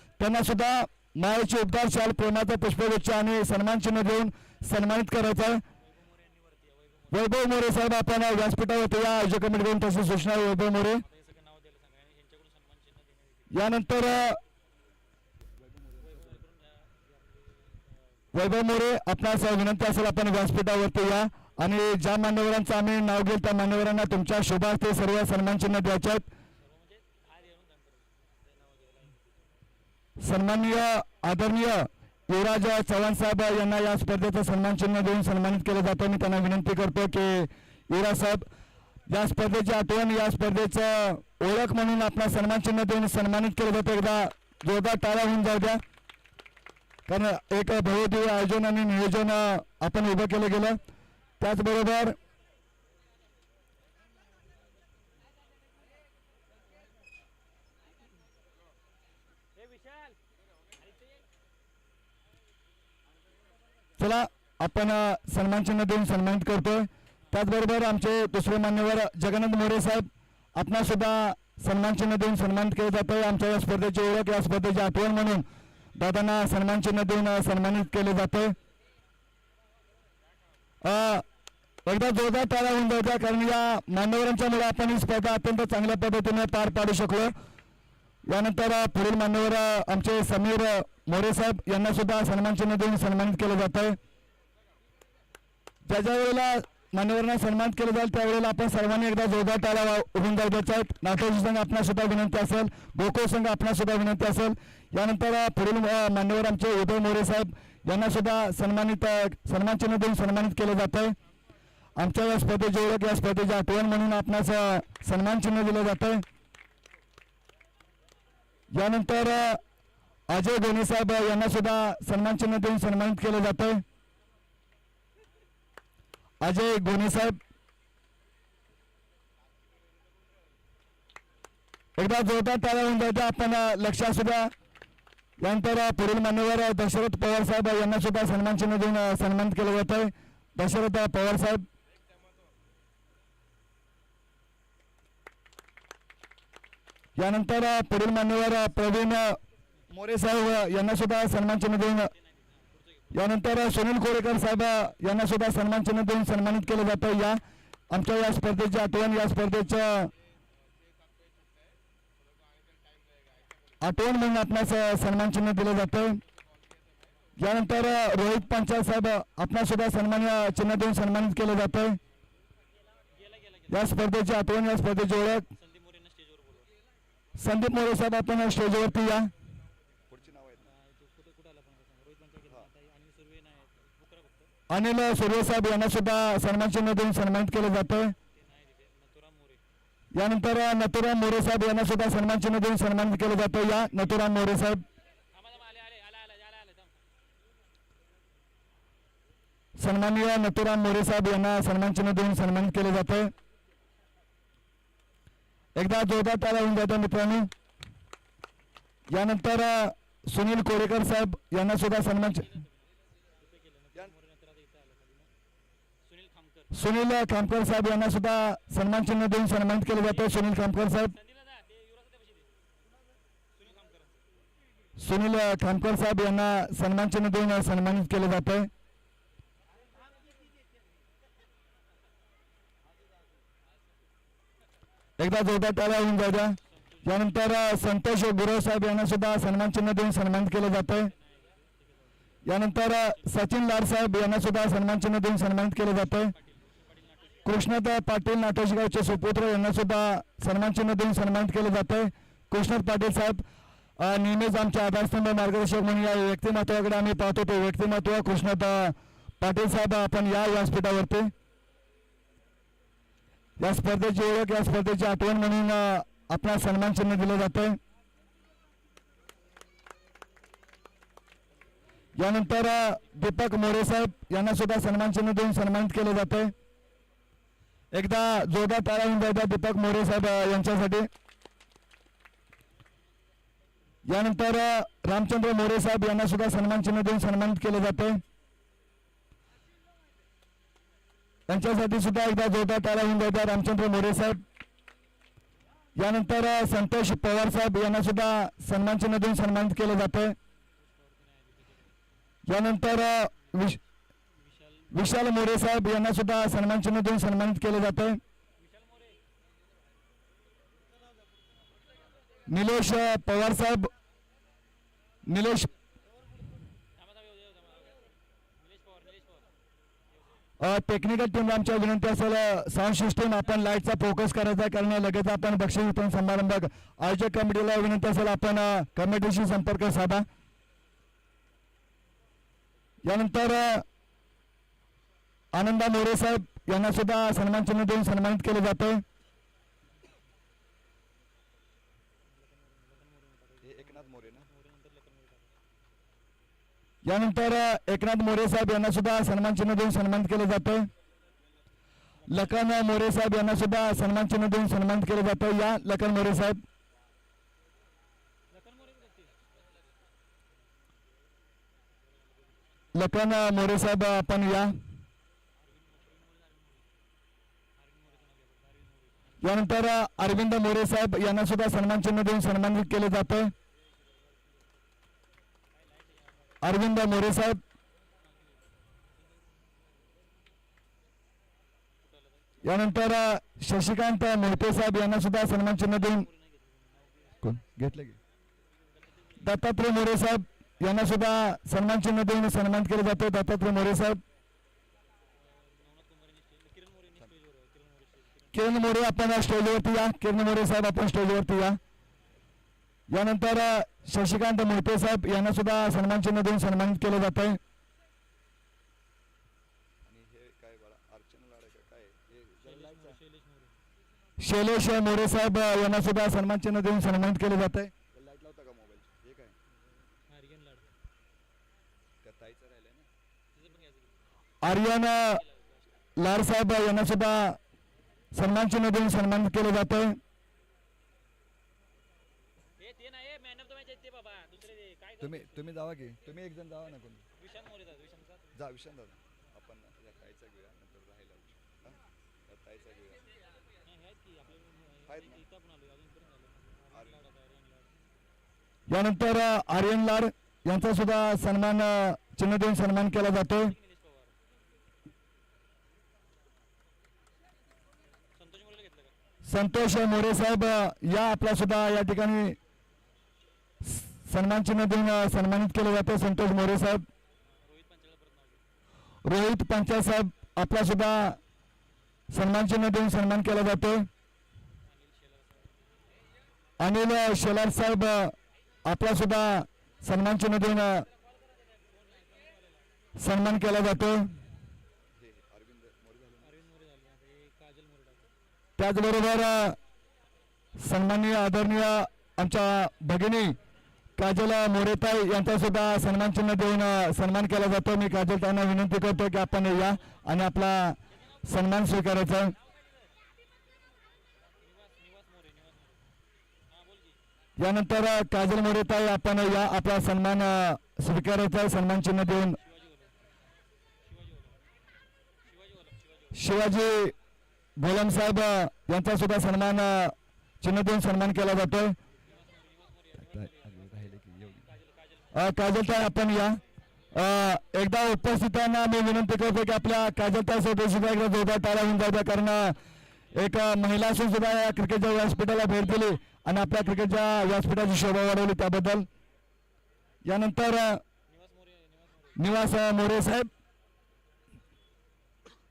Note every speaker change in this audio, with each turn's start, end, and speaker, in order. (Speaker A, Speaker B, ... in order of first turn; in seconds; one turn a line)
Speaker A: 0.2-5.6
Speaker B: 5.8-7.2
Speaker A: 7.1-11.0
Speaker B: 11.0-13.5
Speaker A: 13.5-14.4
Speaker C: 15.5-16.4
Speaker B: 16.0-17.8
Speaker A: 18.3-26.3
Speaker B: 26.6-29.4
Speaker A: 30.2-38.5
Speaker A: 39.1-45.8
Speaker A: 47.1-50.8
Speaker A: 51.4-52.1
Speaker B: 59.5-60.2
Speaker B: 60.8-61.2
Speaker A: 64.0-78.5
Speaker A: 80.8-81.2
Speaker A: 81.8-87.3
Speaker A: 88.3-94.0
Speaker A: 95.8-111.2
Speaker A: 112.0-116.2
Speaker A: 118.7-119.6
Speaker A: 120.3-123.8
Speaker A: 126.4-127.4
Speaker A: 132.0-134.5
Speaker A: 135.4-141.7
Speaker A: 147.2-149.4
Speaker A: 149.9-152.1
Speaker B: 152.1-153.1
Speaker A: 153.1-157.4
Speaker A: 157.9-160.1
Speaker A: 163.8-166.2
Speaker A: 167.4-172.0
Speaker B: 173.1-173.9
Speaker A: 173.7-175.5
Speaker B: 175.5-176.7
Speaker A: 177.4-179.3
Speaker C: 180.1-180.7
Speaker B: 180.6-184.5
Speaker A: 184.7-188.1
Speaker B: 188.3-189.6
Speaker A: 190.2-194.8
Speaker B: 195.3-197.0
Speaker A: 199.8-203.3
Speaker A: 205.8-207.5
Speaker A: 209.1-212.4
Speaker B: 212.4-215.3
Speaker B: 216.0-216.7
Speaker A: 216.7-221.1
Speaker B: 220.1-222.5
Speaker B: 223.5-224.3
Speaker A: 225.0-228.7
Speaker A: 235.2-241.1
Speaker B: 236.7-237.1
Speaker B: 241.1-242.1
Speaker A: 242.4-246.3
Speaker B: 246.2-247.5
Speaker A: 247.4-253.4
Speaker A: 254.0-261.3
Speaker A: 263.6-267.8
Speaker A: 272.2-276.5
Speaker A: 277.9-281.1
Speaker A: 284.1-288.2
Speaker A: 291.5-294.4
Speaker A: 296.0-300.4
Speaker B: 300.8-301.9
Speaker A: 302.5-303.8
Speaker B: 304.4-304.9
Speaker A: 304.9-308.2
Speaker B: 308.6-309.2
Speaker A: 312.5-313.9
Speaker A: 315.2-315.7
Speaker B: 316.9-319.5
Speaker A: 320.6-330.2
Speaker A: 333.1-333.9
Speaker A: 335.5-339.0
Speaker B: 342.2-345.6
Speaker C: 343.6-344.5
Speaker A: 347.1-350.9
Speaker A: 352.3-356.6
Speaker B: 358.5-359.4
Speaker A: 362.9-364.8
Speaker B: 365.6-367.0
Speaker B: 367.8-369.4
Speaker A: 369.4-373.5
Speaker B: 375.7-376.6
Speaker A: 376.6-377.6
Speaker B: 382.0-382.6
Speaker A: 382.6-386.2
Speaker B: 386.0-387.4
Speaker A: 387.4-388.1
Speaker A: 389.4-394.2
Speaker B: 395.3-398.6
Speaker A: 398.5-401.8
Speaker A: 403.1-407.6
Speaker C: 410.0-413.2
Speaker B: 412.6-413.7
Speaker A: 414.4-417.9
Speaker C: 418.1-419.6
Speaker B: 420.3-420.9
Speaker C: 422.2-423.1
Speaker B: 423.5-424.1
Speaker A: 424.6-425.4
Speaker B: 425.4-425.9
Speaker A: 426.2-427.6
Speaker A: 428.3-430.2
Speaker B: 432.8-435.7
Speaker C: 435.2-437.2
Speaker B: 437.4-438.5
Speaker C: 438.5-443.2
Speaker B: 443.8-447.9
Speaker C: 445.1-445.4
Speaker C: 446.9-447.2
Speaker A: 448.9-453.7
Speaker B: 453.6-454.3
Speaker B: 458.3-459.1
Speaker A: 459.4-462.6
Speaker A: 463.8-467.1
Speaker B: 467.6-468.6
Speaker A: 469.2-471.4
Speaker A: 472.3-474.1
Speaker B: 474.8-475.8
Speaker A: 476.8-478.3
Speaker A: 478.9-481.0
Speaker B: 481.1-482.9
Speaker A: 483.2-484.3
Speaker C: 485.1-486.5
Speaker B: 486.4-488.3
Speaker A: 488.8-489.8
Speaker A: 490.8-493.6
Speaker A: 494.2-502.5
Speaker B: 501.1-501.5
Speaker B: 504.6-506.0
Speaker B: 506.7-507.2
Speaker A: 507.6-512.6
Speaker B: 512.6-513.1
Speaker B: 514.0-514.6
Speaker B: 515.4-516.4
Speaker A: 516.3-517.1
Speaker A: 517.8-522.0
Speaker B: 522.2-525.5
Speaker C: 523.2-524.7
Speaker A: 525.3-526.6
Speaker A: 527.1-532.8
Speaker A: 533.3-539.1
Speaker A: 540.2-541.0
Speaker B: 541.3-542.4
Speaker A: 542.4-543.5